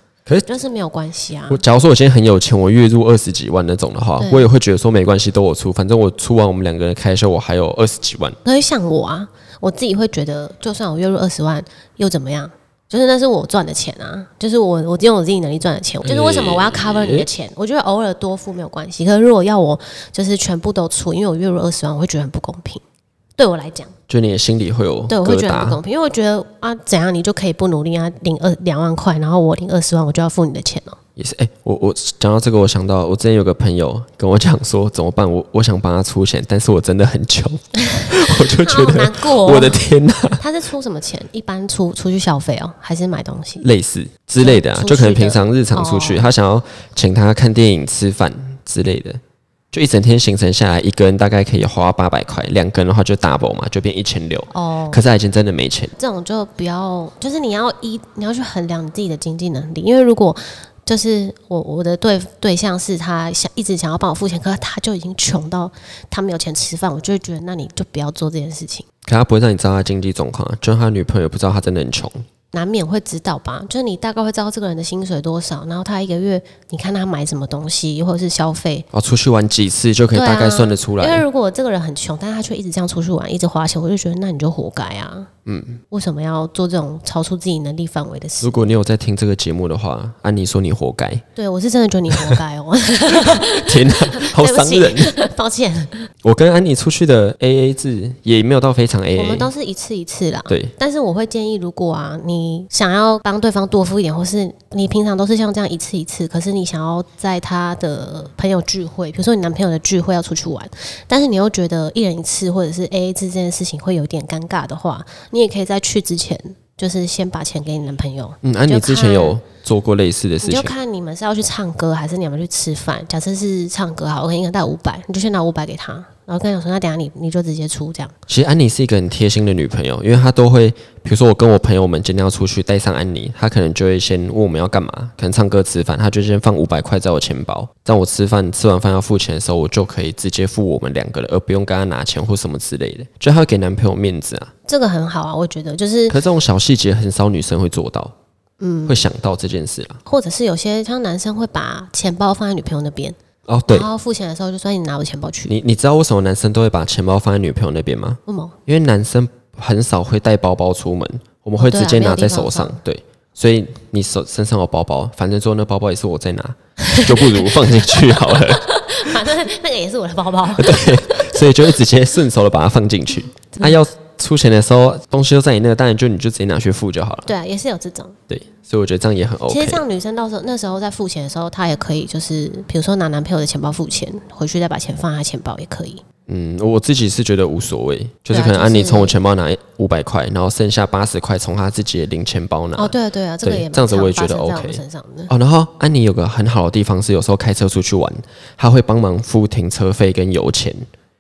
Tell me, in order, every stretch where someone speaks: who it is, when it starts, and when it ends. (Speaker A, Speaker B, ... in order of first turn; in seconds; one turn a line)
Speaker A: 0.2-0.5
Speaker B: 0.5-1.6
Speaker A: 1.5-8.4
Speaker B: 4.2-4.5
Speaker B: 8.4-22.8
Speaker A: 16.0-17.3
Speaker B: 23.4-23.9
Speaker A: 24.1-25.8
Speaker B: 25.1-31.0
Speaker A: 31.2-40.4
Speaker B: 37.9-39.9
Speaker B: 40.4-43.6
Speaker A: 43.6-49.2
Speaker B: 44.4-46.3
Speaker A: 49.7-55.9
Speaker B: 54.5-55.0
Speaker B: 56.0-68.9
Speaker A: 69.0-72.2
Speaker B: 72.5-78.9
Speaker A: 78.9-81.2
Speaker B: 80.1-85.3
Speaker A: 85.5-85.8
Speaker B: 85.9-88.7
Speaker A: 88.4-91.2
Speaker B: 91.4-96.1
Speaker A: 92.1-92.4
Speaker A: 93.1-95.2
Speaker A: 96.2-99.5
Speaker B: 99.2-119.4
Speaker A: 100.5-100.7
Speaker A: 118.4-120.7
Speaker B: 120.4-128.1
Speaker A: 128.3-144.5
Speaker B: 144.7-146.2
Speaker A: 146.1-148.1
Speaker B: 148.6-149.0
Speaker A: 148.9-150.0
Speaker B: 150.1-153.2
Speaker A: 153.5-153.9
Speaker B: 153.7-155.5
Speaker A: 155.5-169.1
Speaker B: 158.3-158.6
Speaker B: 161.6-162.8
Speaker B: 166.8-171.5
Speaker A: 170.6-177.3
Speaker B: 177.2-178.2
Speaker A: 178.3-179.8
Speaker B: 179.5-186.0
Speaker A: 186.3-200.9
Speaker B: 188.3-189.2
Speaker B: 192.8-195.3